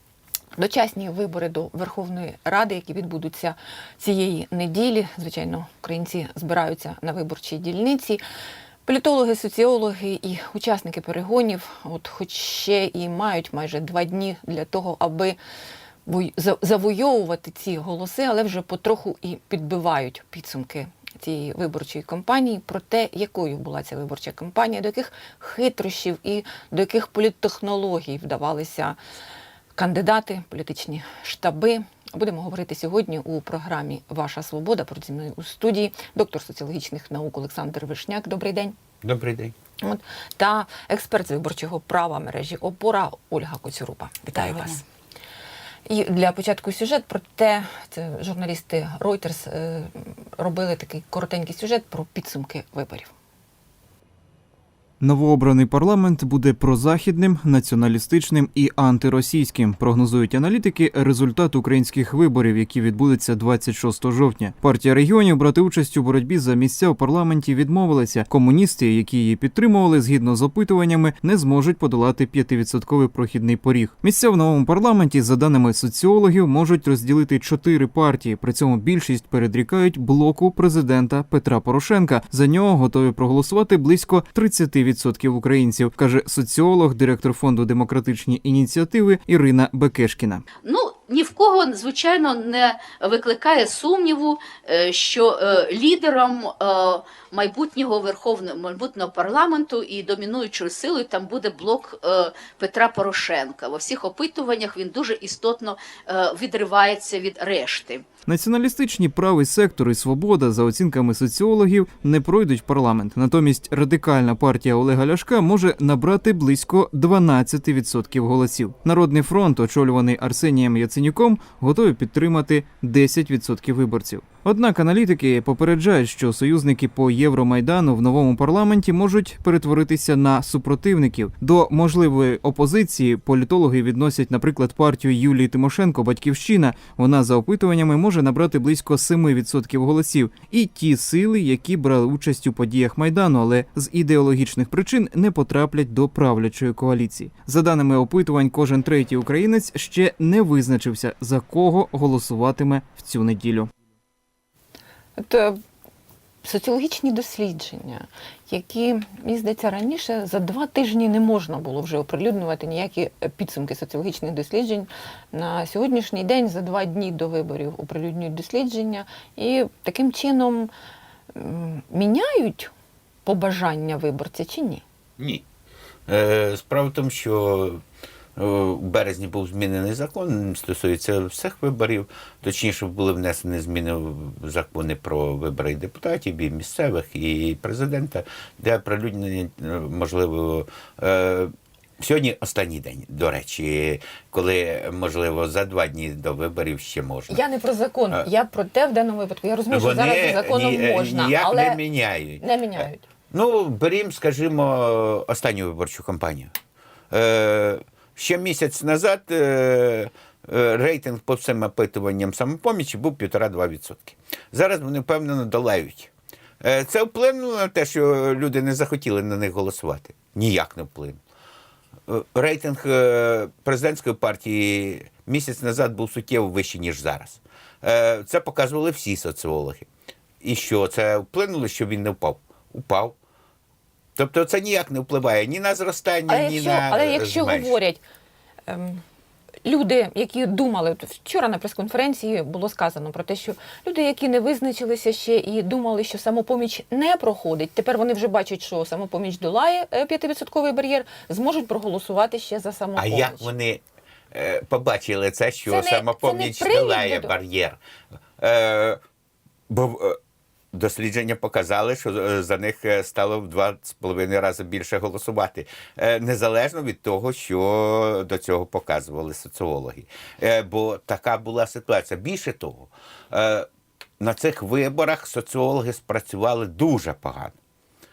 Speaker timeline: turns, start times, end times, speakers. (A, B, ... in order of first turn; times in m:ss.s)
0:00.6-0:08.2 A
0:08.9-0:15.4 A
0:16.1-0:29.0 A
0:29.8-0:38.8 A
0:39.0-0:39.6 B
0:39.8-0:44.8 A
0:45.9-0:53.1 A
0:55.0-1:30.4 C
1:30.6-1:48.1 D
1:48.3-2:33.7 C
2:35.2-2:35.6 A
2:36.4-2:50.7 A
2:51.4-2:52.7 A
2:53.2-2:54.8 A
2:55.2-2:55.4 B
2:56.1-2:57.8 B
2:58.4-3:17.4 B
3:17.3-3:21.8 A
3:19.7-3:26.5 B
3:22.4-3:23.0 A
3:27.1-3:36.1 B
3:36.6-3:41.2 B
3:42.1-3:49.9 B
3:50.4-3:53.2 B
3:54.2-3:57.8 B
3:56.3-3:58.0 A
3:58.7-3:59.0 A
3:59.6-4:13.5 A
4:13.0-4:17.8 B
4:15.7-4:17.3 A
4:18.4-4:19.0 B
4:19.7-4:20.2 B
4:20.7-4:33.7 B
4:34.2-4:37.6 B